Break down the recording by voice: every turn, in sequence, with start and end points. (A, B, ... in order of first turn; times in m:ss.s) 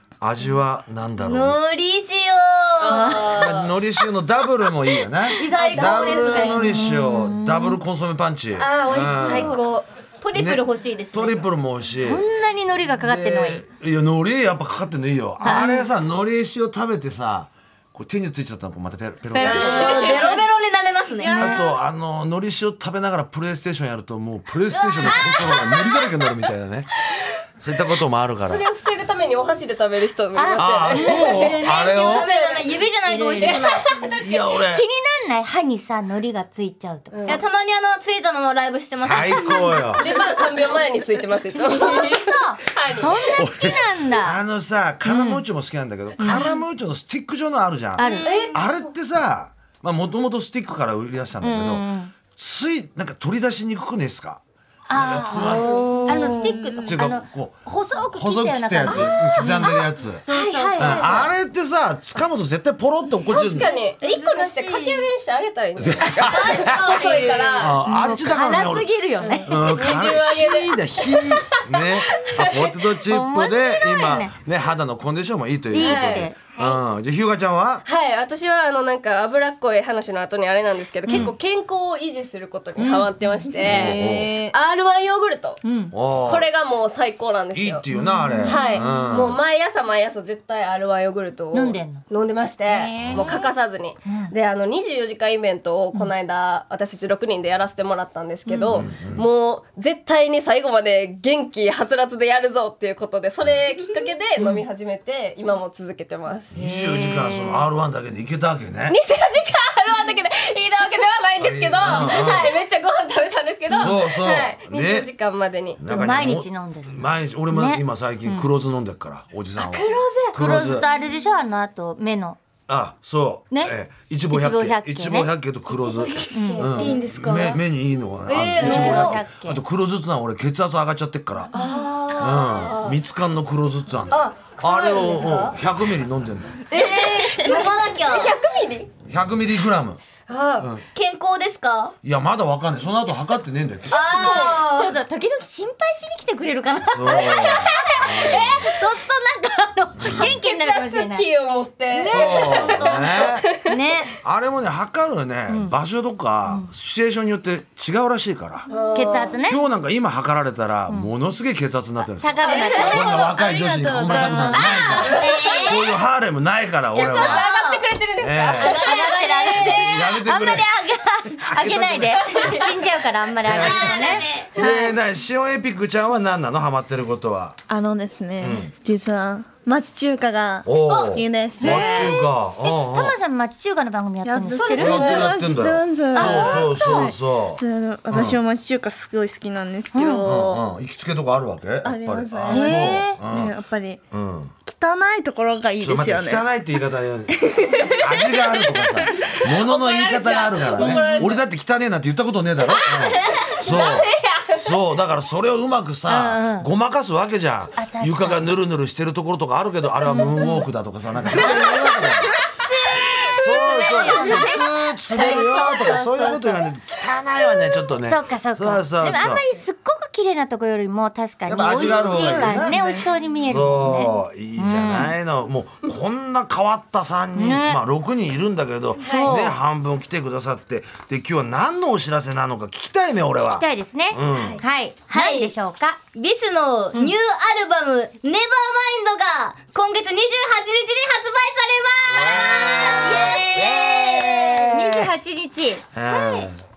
0:00.2-0:01.6 A
0:01.2-0:03.5 B
0:02.8-0:03.7 C
0:02.8-0:03.3 D
0:03.3-0:09.6 A
0:05.2-0:06.6 B
0:05.4-0:06.6 C
0:06.4-0:07.8 D
0:08.6-0:09.8 C
0:08.9-0:11.5 B
0:10.3-0:12.2 A
0:12.0-0:13.6 D
0:13.0-0:20.2 A
0:15.4-0:15.9 D
0:19.3-0:20.3 D
0:19.4-0:20.4 C
0:19.4-0:21.6 B
0:21.2-0:21.6 D
0:21.3-0:26.9 A
0:24.8-0:25.8 B
0:25.0-0:25.4 C
0:27.6-0:28.6 A
0:28.4-0:34.6 C
0:30.3-0:32.0 D
0:30.5-0:32.3 A
0:31.1-0:33.9 B
0:33.0-0:37.4 D
0:34.2-0:34.8 A
0:37.1-0:37.4 C
0:37.2-0:40.1 B
0:39.0-0:40.1 A
0:40.0-0:43.4 C
0:41.6-0:44.4 D
0:43.4-0:56.0 A
0:45.0-0:45.4 D
0:46.2-0:46.6 D
0:48.0-0:48.5 D
0:48.1-0:48.8 C
0:51.4-0:52.1 D
0:54.9-1:01.3 D
0:55.3-0:56.6 C
0:55.3-0:56.6 B
0:56.8-1:00.2 A
0:58.8-1:01.3 C
1:00.8-1:03.7 A
1:03.3-1:07.8 C
1:03.6-1:05.1 D
1:05.8-1:07.0 A
1:06.1-1:07.7 B
1:07.6-1:08.9 A
1:07.8-1:09.6 D
1:09.2-1:12.8 C
1:09.4-1:17.8 A
1:13.0-1:14.3 D
1:15.7-1:16.4 D
1:15.8-1:16.3 C
1:17.8-1:25.6 C
1:21.1-1:21.3 D
1:22.8-1:24.5 D
1:23.6-1:24.3 A
1:25.6-1:25.9 D
1:25.9-1:26.5 A
1:26.2-1:27.8 C
1:27.5-1:29.4 A
1:27.9-1:29.1 D
1:28.4-1:46.5 C
1:31.5-1:32.0 D
1:32.7-1:33.5 D
1:33.0-1:33.3 A
1:34.0-1:34.3 D
1:38.5-1:38.8 D
1:38.7-1:39.2 A
1:44.4-1:44.6 D
1:46.5-1:49.0 A
1:46.5-1:47.6 D
1:48.9-1:56.1 C
1:51.4-1:52.6 A
1:53.7-1:55.1 A
1:55.8-2:00.9 A
1:55.9-1:58.5 D
1:59.6-2:00.8 C
2:00.3-2:02.4 D
2:02.7-2:11.5 A
2:04.3-2:05.3 D
2:05.7-2:07.0 C
2:06.3-2:06.9 D
2:06.7-2:07.6 B
2:08.2-2:09.2 B
2:08.6-2:09.6 D
2:11.5-2:11.9 D
2:11.5-2:13.0 C
2:12.1-2:16.7 A
2:14.1-2:15.6 C
2:16.7-2:18.3 B
2:16.7-2:18.9 C
2:19.1-2:20.0 A
2:20.3-2:20.7 C
2:20.6-2:20.8 A
2:20.9-2:21.9 B
2:22.0-2:24.3 A
2:23.9-2:25.0 B
2:23.9-2:27.9 D
2:23.9-2:24.6 C
2:26.8-2:28.7 A
2:27.1-2:28.8 C
2:28.6-2:31.2 D
2:30.0-2:30.4 A
2:30.0-2:33.8 C
2:31.9-2:34.2 D
2:32.0-2:33.5 A
2:34.2-2:38.7 A
2:35.5-2:35.7 D
2:38.7-2:39.4 C
2:38.9-2:39.6 D
2:39.4-2:47.5 A
2:42.2-2:43.1 D
2:42.4-2:43.1 C
2:42.5-2:42.9 B
2:42.8-2:44.6 E
2:44.0-2:44.9 D
2:44.6-2:45.8 C
2:44.6-2:46.0 B
2:46.9-2:50.2 C
2:47.0-2:47.8 B
2:48.2-2:48.8 A
2:48.5-2:49.9 B
2:48.8-2:54.8 D
2:49.8-2:50.7 A
2:51.4-2:52.5 A
2:52.2-2:52.8 C
2:53.4-2:57.6 A
2:53.5-2:54.5 B
2:57.7-3:02.2 E
2:58.4-2:58.7 A
3:00.6-3:03.2 A
3:01.6-3:05.2 D
3:04.2-3:10.7 E
3:04.7-3:08.4 A
3:04.8-3:05.3 C
3:06.1-3:07.1 D
3:09.9-3:10.2 D
3:10.2-3:13.5 A
3:11.8-3:14.0 E
3:12.5-3:13.2 D
3:14.1-3:14.5 A
3:14.6-3:16.4 E
3:15.8-3:32.4 A
3:17.4-3:19.3 E
3:19.3-3:21.4 C
3:20.8-3:21.3 D
3:22.8-3:24.7 C
3:23.1-3:23.5 B
3:26.1-3:26.7 D
3:27.8-3:28.5 D
3:30.0-3:30.7 D
3:31.3-3:36.4 D
3:31.3-3:36.6 C
3:33.1-3:39.4 A
3:38.0-3:45.1 D
3:41.5-3:42.8 A
3:43.4-3:54.6 A
3:47.3-3:47.8 D
3:49.0-3:49.6 D
3:49.0-3:49.4 C
3:53.4-3:56.0 D
3:54.3-3:54.6 C
3:55.1-3:55.5 B
3:56.1-4:04.8 B
4:02.1-4:05.1 A
4:02.2-4:03.4 C
4:04.7-4:05.9 D
4:05.9-4:06.6 A